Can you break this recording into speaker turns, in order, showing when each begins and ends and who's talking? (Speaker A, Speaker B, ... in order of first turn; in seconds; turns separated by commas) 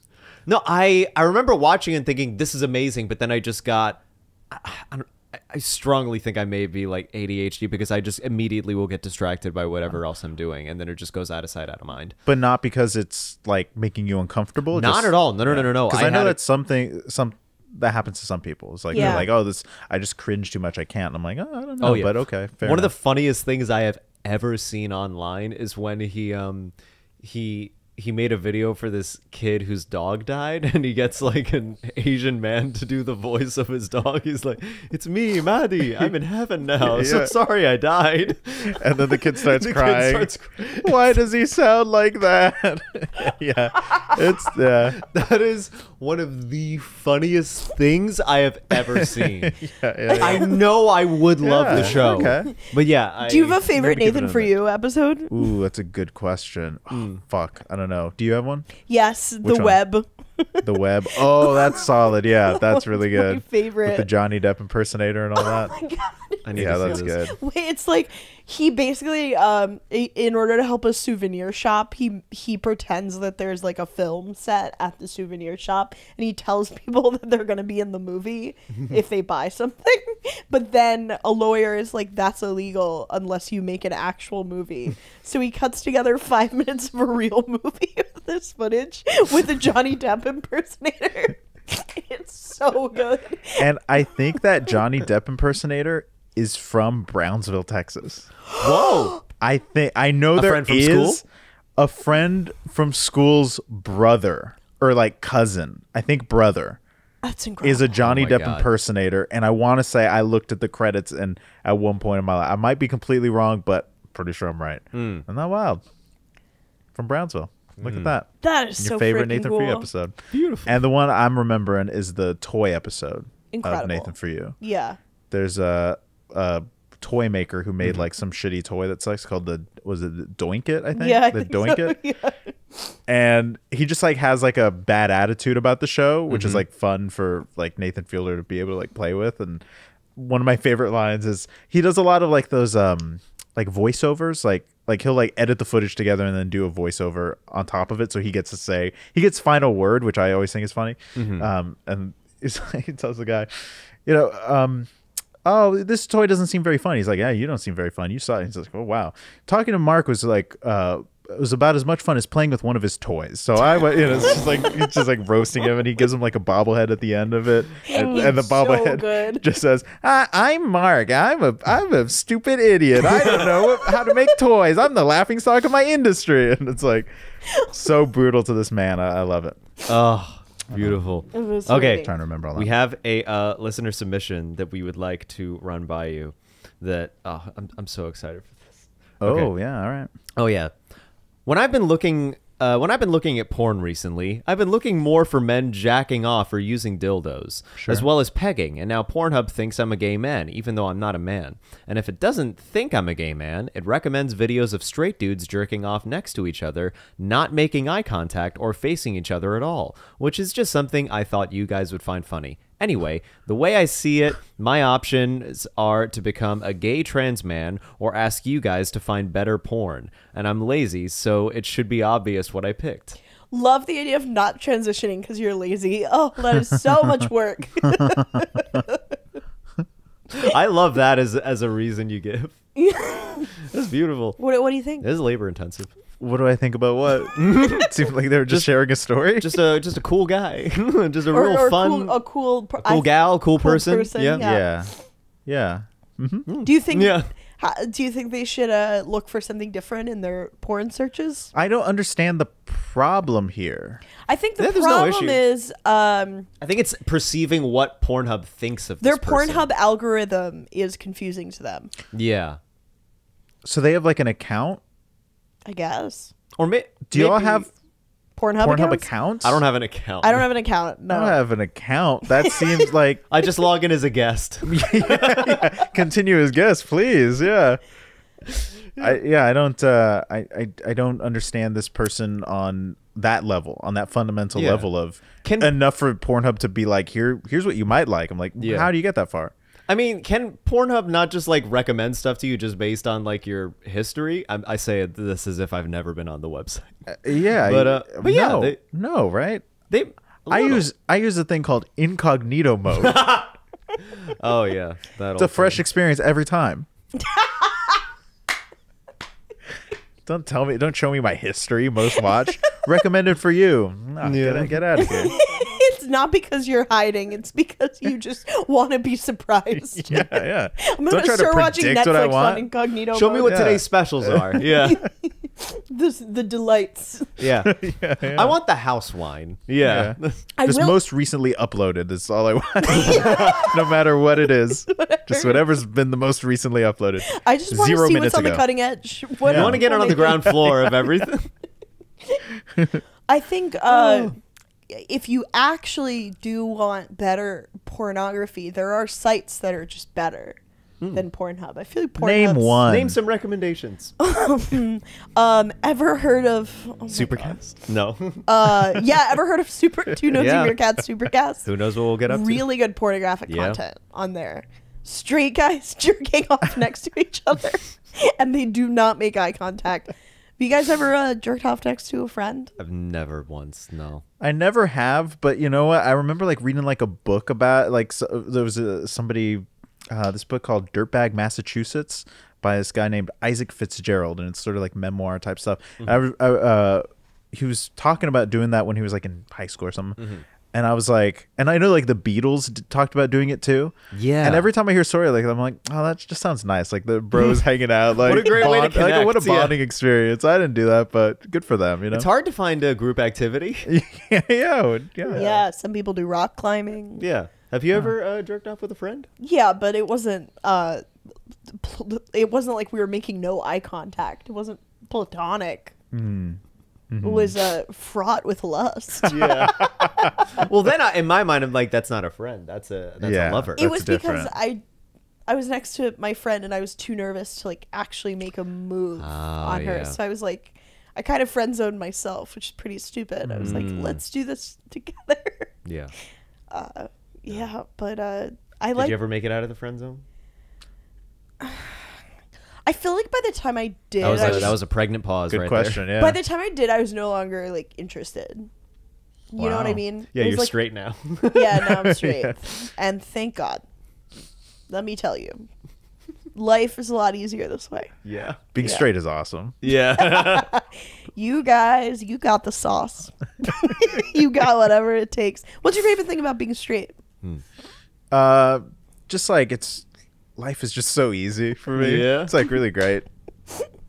Speaker A: 0.5-12.2, Speaker B: 12.3-22.9, Speaker A: 14.7-16.4, Speaker C: 18.9-19.2, Speaker A: 18.9-19.3, Speaker A: 21.8-41.1, Speaker B: 36.8-37.4, Speaker B: 38.7-40.3, Speaker B: 40.8-45.0, Speaker A: 45.0-49.6, Speaker B: 49.0-50.5, Speaker C: 50.1-50.6, Speaker A: 50.2-53.7, Speaker B: 51.4-52.5, Speaker C: 51.7-52.6, Speaker C: 53.2-55.4, Speaker B: 53.7-54.5, Speaker B: 55.3-58.8, Speaker A: 56.9-57.2, Speaker C: 58.9-61.9, Speaker B: 59.4-59.8, Speaker B: 60.6-65.7, Speaker C: 62.5-64.1, Speaker C: 65.4-93.7, Speaker A: 66.5-67.2, Speaker B: 66.5-67.4, Speaker B: 93.6-98.3, Speaker C: 98.5-99.2, Speaker A: 98.6-99.2, Speaker B: 99.4-101.2, Speaker A: 100.3-101.2, Speaker B: 101.8-106.8, Speaker C: 107.2-107.9, Speaker B: 107.6-115.8, Speaker A: 108.0-108.7, Speaker A: 114.9-115.2, Speaker B: 117.0-124.6, Speaker A: 117.8-118.2, Speaker C: 118.4-119.9, Speaker A: 120.3-120.8, Speaker C: 123.5-125.0, Speaker B: 125.3-132.0, Speaker C: 130.9-132.9, Speaker B: 133.1-139.6, Speaker A: 136.3-136.6, Speaker B: 140.2-154.9, Speaker A: 151.2-151.5, Speaker B: 155.4-177.1, Speaker C: 167.9-169.4, Speaker C: 173.7-174.3, Speaker B: 177.7-179.6, Speaker A: 179.9-189.5, Speaker B: 180.7-181.0, Speaker C: 181.3-182.1, Speaker B: 181.8-182.7, Speaker B: 189.2-190.1, Speaker A: 190.4-190.8, Speaker A: 191.5-223.2, Speaker B: 197.8-198.1, Speaker C: 223.5-229.2, Speaker B: 227.9-228.4, Speaker A: 230.4-232.6, Speaker C: 232.8-233.5, Speaker A: 233.6-234.4, Speaker C: 234.4-235.1, Speaker A: 235.0-235.9, Speaker B: 236.2-239.7, Speaker A: 237.4-237.9, Speaker A: 239.4-242.2, Speaker C: 241.3-244.7, Speaker A: 242.8-244.4, Speaker B: 244.4-244.9, Speaker B: 245.5-246.5, Speaker A: 246.5-247.3, Speaker C: 246.6-251.5, Speaker B: 251.5-254.0, Speaker C: 254.3-256.5, Speaker A: 254.6-255.4, Speaker A: 256.6-259.6, Speaker C: 259.0-261.9, Speaker A: 262.1-262.6, Speaker B: 263.6-264.8, Speaker C: 265.6-266.3, Speaker A: 266.6-267.7, Speaker B: 267.1-267.7, Speaker C: 268.4-269.1, Speaker B: 268.6-269.6, Speaker A: 269.4-270.5, Speaker C: 270.2-271.4, Speaker B: 271.1-273.2, Speaker C: 272.4-272.7, Speaker A: 273.3-275.7, Speaker B: 274.6-277.8, Speaker B: 279.0-289.5, Speaker A: 284.6-284.9, Speaker A: 285.4-285.7, Speaker A: 288.6-288.9, Speaker A: 289.9-298.8, Speaker B: 297.2-299.7, Speaker A: 299.9-300.8, Speaker B: 300.5-303.2, Speaker A: 302.9-305.8, Speaker B: 305.4-306.9, Speaker C: 307.2-308.0, Speaker B: 310.3-315.3, Speaker A: 314.2-314.8, Speaker C: 315.0-323.6, Speaker B: 319.9-322.7, Speaker A: 323.1-325.0, Speaker B: 323.4-324.6, Speaker C: 324.6-327.4, Speaker A: 327.4-330.4, Speaker B: 327.6-328.6, Speaker B: 329.8-338.6, Speaker C: 330.6-331.0, Speaker C: 332.9-333.7, Speaker A: 333.0-333.7, Speaker C: 334.9-335.6, Speaker C: 337.3-340.8, Speaker B: 339.4-340.5, Speaker A: 339.5-341.5, Speaker C: 343.3-344.4, Speaker A: 343.9-344.3, Speaker C: 344.9-350.6, Speaker C: 351.1-352.8, Speaker B: 352.2-353.2, Speaker A: 352.9-354.1, Speaker C: 354.2-357.6, Speaker A: 357.1-359.0, Speaker C: 358.5-361.7, Speaker A: 360.3-360.8, Speaker A: 361.6-362.6, Speaker C: 362.3-372.7, Speaker A: 363.5-363.8, Speaker A: 372.8-374.2, Speaker B: 374.4-390.2, Speaker A: 390.2-390.5, Speaker B: 390.7-402.3, Speaker A: 394.1-394.6, Speaker A: 398.2-399.8, Speaker A: 402.1-403.9, Speaker B: 403.9-405.5, Speaker A: 405.3-405.6, Speaker C: 405.3-407.2, Speaker A: 407.2-409.3, Speaker C: 409.4-411.0, Speaker C: 411.7-415.9, Speaker B: 416.1-417.6, Speaker C: 417.2-420.6, Speaker A: 419.3-419.9, Speaker B: 419.4-420.3, Speaker A: 420.5-423.9, Speaker B: 423.2-424.5, Speaker C: 423.8-424.8, Speaker C: 425.5-435.7, Speaker A: 429.2-430.2, Speaker B: 433.4-433.8, Speaker A: 433.6-434.2, Speaker A: 435.9-436.1, Speaker C: 436.7-439.2, Speaker A: 438.9-440.2, Speaker C: 441.6-442.1, Speaker C: 442.9-444.8, Speaker B: 444.2-444.8, Speaker A: 444.2-446.0, Speaker B: 445.5-446.4, Speaker C: 446.2-448.7, Speaker C: 449.5-450.8, Speaker B: 449.6-450.0, Speaker A: 450.3-451.9, Speaker C: 451.5-453.8, Speaker B: 452.0-452.6, Speaker C: 454.9-455.7, Speaker C: 456.6-458.1, Speaker A: 458.2-458.6, Speaker B: 458.7-459.8, Speaker A: 459.8-460.7, Speaker C: 460.1-467.2, Speaker B: 468.3-470.1, Speaker B: 470.6-473.3, Speaker A: 471.9-472.5